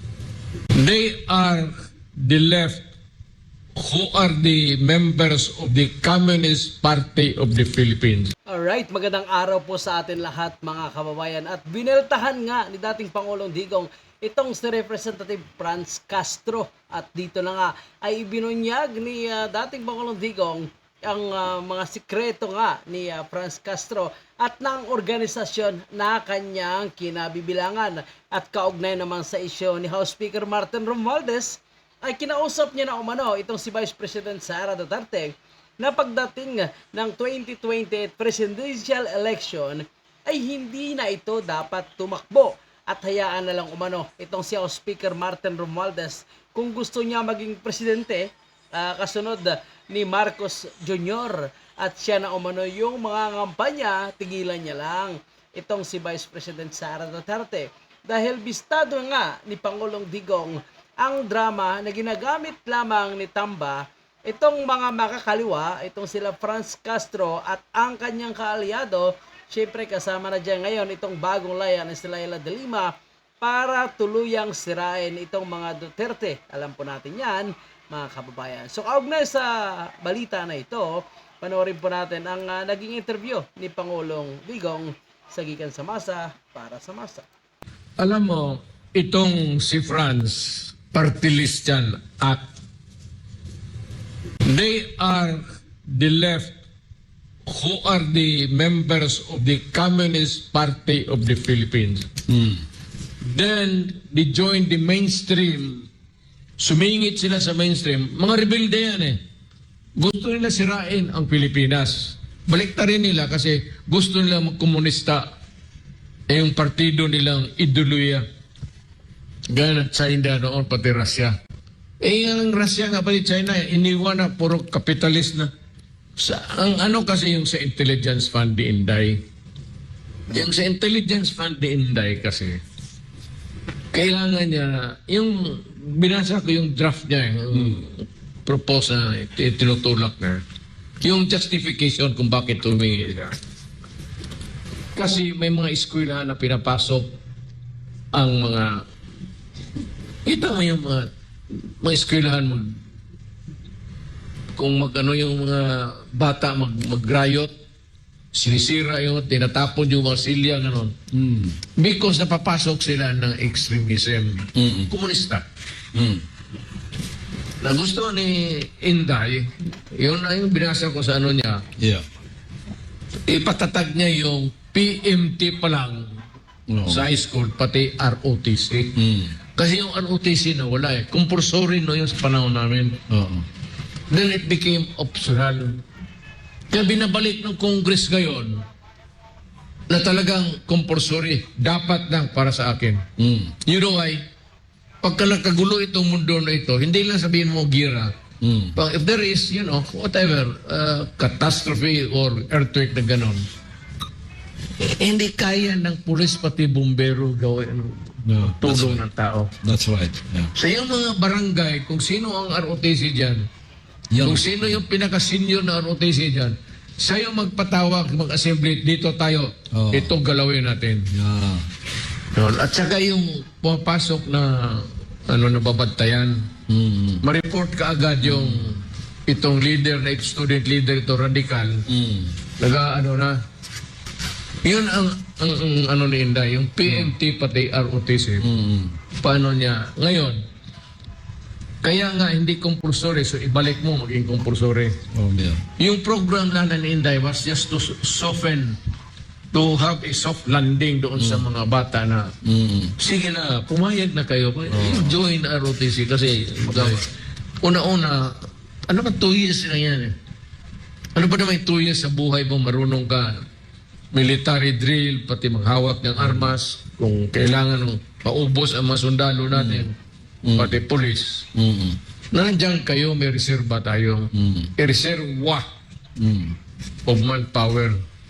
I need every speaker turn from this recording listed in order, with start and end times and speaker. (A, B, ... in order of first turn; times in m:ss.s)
0:00.8-0:02.8 A
0:03.7-0:08.3 A
0:08.5-1:27.2 B
1:28.0-1:32.4 A
1:34.4-1:36.6 A
1:37.4-1:42.0 A
1:42.3-1:42.6 C
1:43.2-1:45.9 A
1:46.6-1:49.2 A
1:50.0-1:55.3 A
1:56.3-1:58.2 A
1:59.5-2:01.3 A
2:02.0-2:05.5 A
2:06.2-2:09.2 A
2:10.3-2:12.6 A
2:13.9-2:20.4 A
2:17.5-2:17.8 C
2:21.0-2:23.3 A
2:24.9-2:27.1 A
2:28.1-2:28.8 A
2:30.2-2:32.8 A
2:34.5-2:37.5 A
2:38.3-2:40.9 A
2:41.1-2:41.6 C
2:41.8-2:45.4 A
2:44.5-2:44.9 C
2:45.9-2:46.2 C
2:47.6-2:51.6 A
2:51.8-2:52.0 C
2:53.3-2:56.2 A
2:56.7-2:57.0 C
2:56.8-2:59.0 A
2:59.0-2:59.3 C
2:59.5-3:03.0 A
3:03.1-3:03.4 C
3:04.1-3:05.8 A
3:06.7-3:08.6 A
3:09.9-3:13.0 A
3:13.2-3:13.5 C
3:13.6-3:14.2 A
3:15.0-3:18.1 A
3:18.4-3:18.7 C
3:18.8-3:23.4 A
3:24.8-3:29.5 A
3:28.2-3:29.0 C
3:29.6-3:30.5 C
3:30.5-3:33.5 A
3:34.1-3:34.8 C
3:34.2-3:41.1 A
3:39.7-3:40.1 C
3:41.1-3:41.6 C
3:42.3-3:46.5 A
3:46.7-3:47.2 C
3:47.2-3:51.8 A
3:48.2-3:48.7 C
3:51.9-3:52.3 C
3:52.6-3:53.4 A
3:54.6-3:58.4 A
3:56.8-3:57.1 C
3:58.4-3:59.0 C
3:59.2-4:00.4 A
4:01.8-4:05.0 A
4:05.1-4:05.6 C
4:05.8-4:08.8 A
4:09.5-4:12.3 A
4:11.2-4:11.4 C
4:12.4-4:12.9 C
4:13.0-4:17.1 A
4:14.7-4:15.2 C
4:16.6-4:17.0 C
4:17.6-4:20.1 A
4:21.1-4:23.4 A
4:24.1-4:30.0 A
4:26.2-4:26.6 C
4:29.5-4:29.9 C
4:30.4-4:30.8 C
4:30.6-4:31.4 A
4:31.5-4:32.0 C
4:32.3-4:35.6 A
4:34.3-4:34.7 C
4:36.2-4:36.6 C
4:37.0-4:38.0 A